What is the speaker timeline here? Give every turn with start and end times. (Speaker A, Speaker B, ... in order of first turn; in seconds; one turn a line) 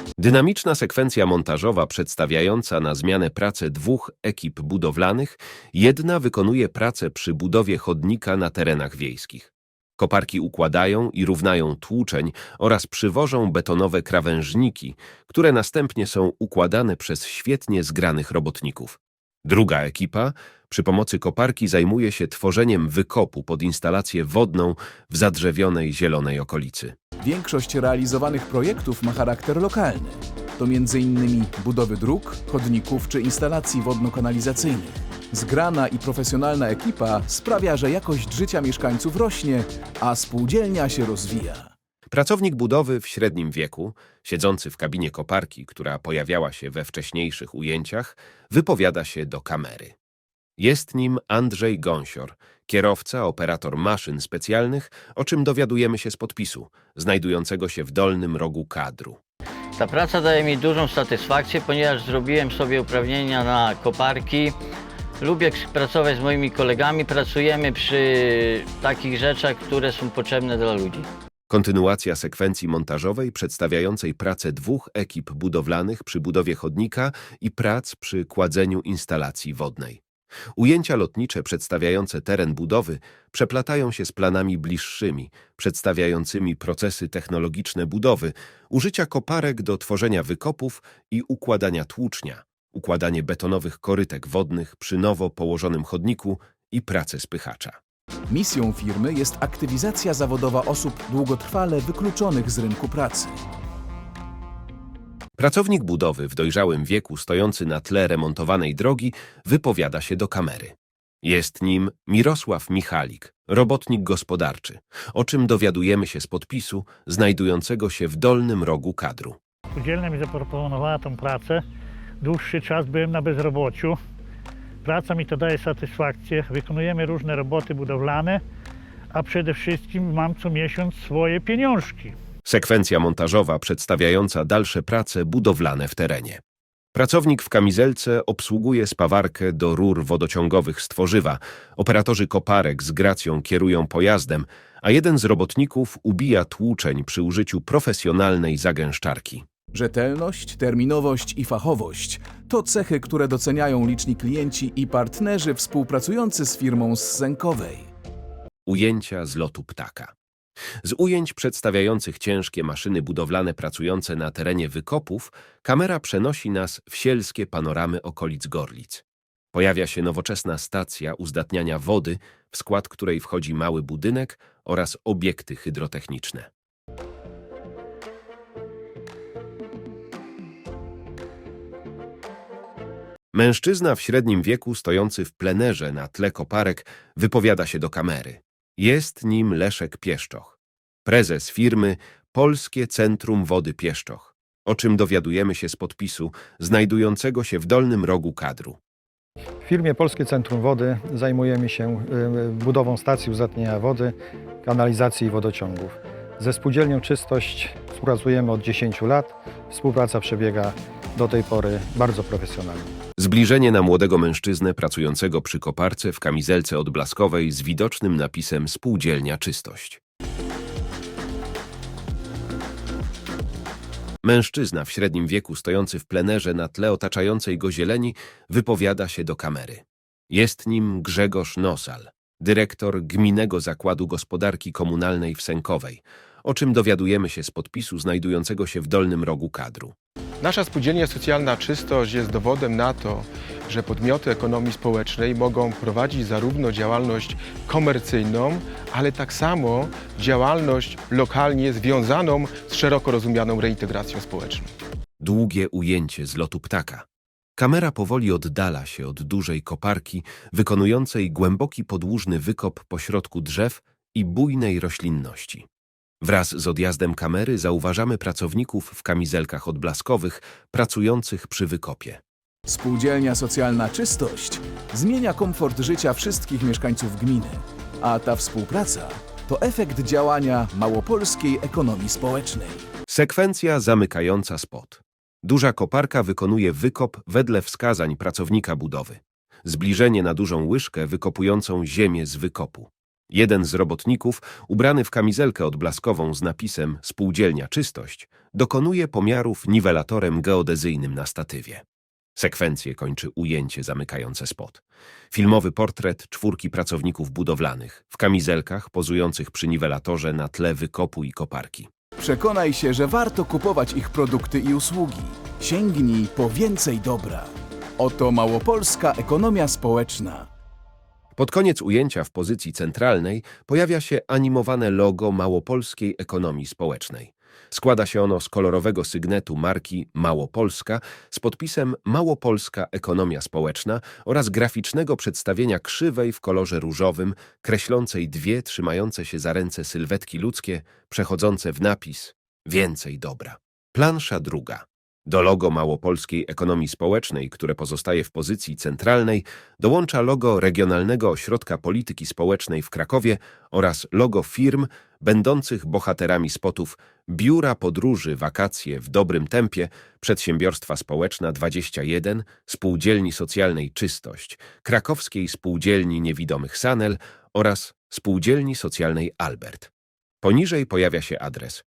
Speaker A: 0.2-26.9
Speaker B: 27.2-41.7
Speaker A: 42.1-50.0
Speaker A: 50.6-59.2
Speaker C: 59.8-64.6
Speaker C: 65.2-71.1
Speaker A: 71.5-80.0
Speaker A: 80.6-97.8
Speaker B: 98.3-103.4
Speaker A: 105.4-119.4
Speaker D: 119.8-121.6
Speaker D: 122.2-124.0
Speaker D: 124.8-128.4
Speaker D: 129.1-132.2
Speaker A: 132.4-136.4
Speaker A: 136.9-149.4
Speaker B: 149.7-157.9
Speaker A: 158.7-160.1
Speaker A: 160.8-176.5
Speaker A: 183.3-198.8
Speaker E: 199.7-212.9
Speaker A: 213.2-220.0
Speaker A: 224.2-239.9
Speaker F: 240.4-254.7
Speaker A: 255.2-257.1
Speaker A: 257.6-265.7
Speaker A: 266.2-272.2
Speaker B: 272.7-282.9
Speaker A: 283.1-301.8
Speaker A: 302.4-311.9
Speaker B: 312.2-320.5
Speaker A: 321.4-369.9
Speaker A: 370.4-371.8